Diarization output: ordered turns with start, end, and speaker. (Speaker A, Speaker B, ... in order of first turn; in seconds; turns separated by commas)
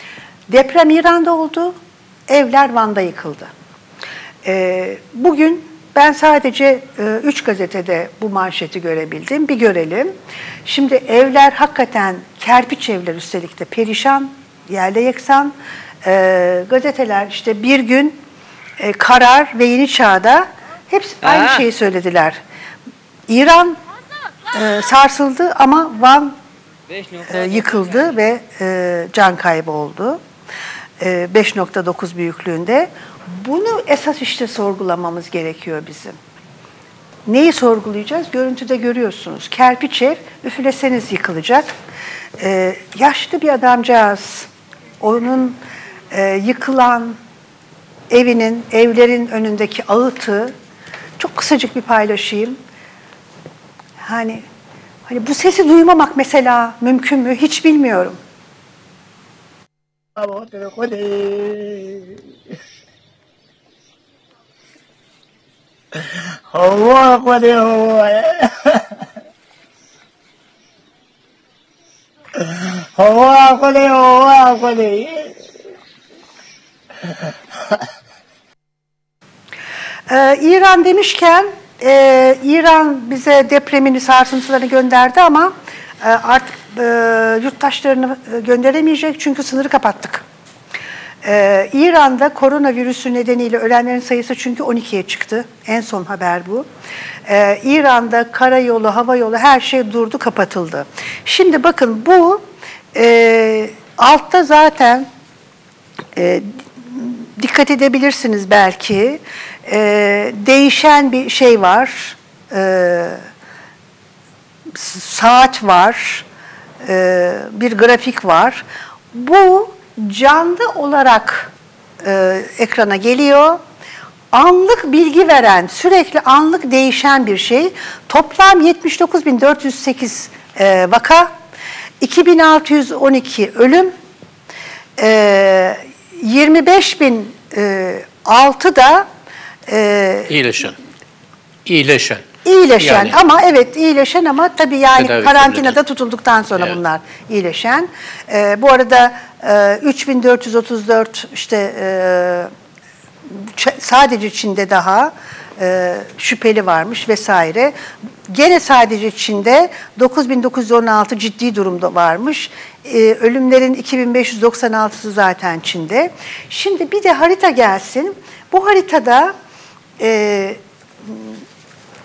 Speaker A: 0.5-1.8, Speaker A: 2.3-3.5, Speaker A: 4.4-10.1, Speaker A: 10.6-18.2, Speaker A: 18.8-22.4, Speaker A: 23.3-23.8, Speaker A: 24.5-26.3, Speaker A: 27.1-30.2, Speaker A: 31.0-36.2, Speaker A: 37.2-41.7, Speaker A: 42.4-44.5, Speaker A: 45.0-45.6, Speaker A: 46.1-47.2, Speaker A: 48.1-50.5, Speaker A: 51.2-52.6, Speaker A: 54.0-54.4, Speaker A: 55.1-58.2, Speaker B: 60.2-62.1, Speaker B: 66.5-68.8, Speaker B: 72.4-75.3, Speaker A: 80.1-90.2, Speaker A: 91.2-96.7, Speaker A: 97.2-102.4, Speaker A: 102.9-105.1, Speaker A: 106.2-113.2, Speaker A: 114.7-116.2, Speaker A: 116.8-121.5, Speaker A: 122.0-123.6, Speaker A: 124.3-131.3, Speaker A: 132.0-133.9, Speaker A: 135.0-139.1, Speaker A: 139.7-140.3, Speaker C: 140.3-140.8, Speaker C: 141.7-142.2, Speaker A: 142.4-152.5, Speaker C: 142.8-143.2, Speaker C: 145.0-145.8, Speaker A: 153.3-157.7, Speaker A: 158.3-169.3, Speaker A: 170.0-171.4